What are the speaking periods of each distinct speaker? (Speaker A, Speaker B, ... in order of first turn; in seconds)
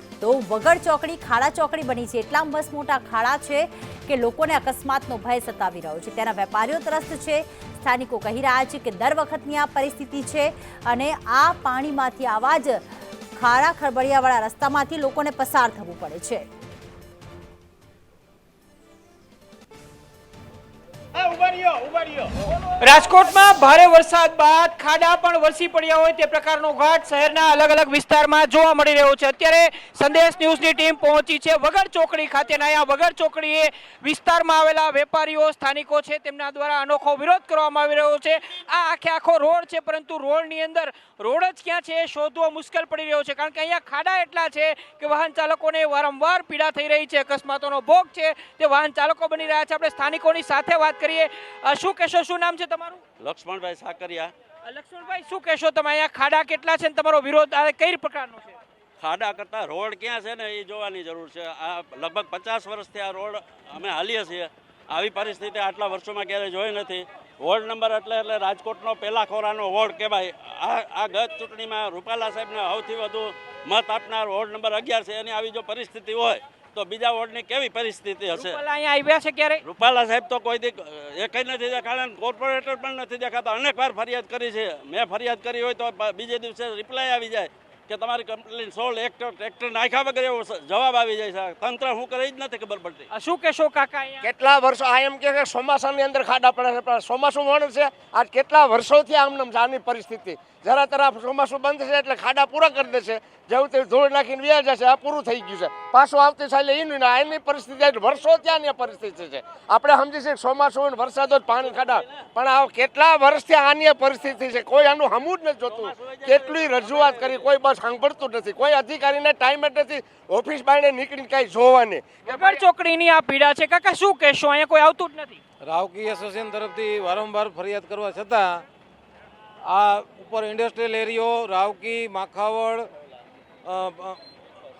Speaker A: 0.2-12.8, 13.4-16.4
Speaker B: 22.8-53.0, 54.7-58.5, 78.4-79.6, 93.1-94.2, 122.2-125.4
Speaker C: 53.2-54.3, 59.0-78.6, 79.6-93.1, 115.6-117.5
Speaker D: 94.2-122.6
Speaker E: 125.6-128.7, 129.6-132.9, 133.7-134.2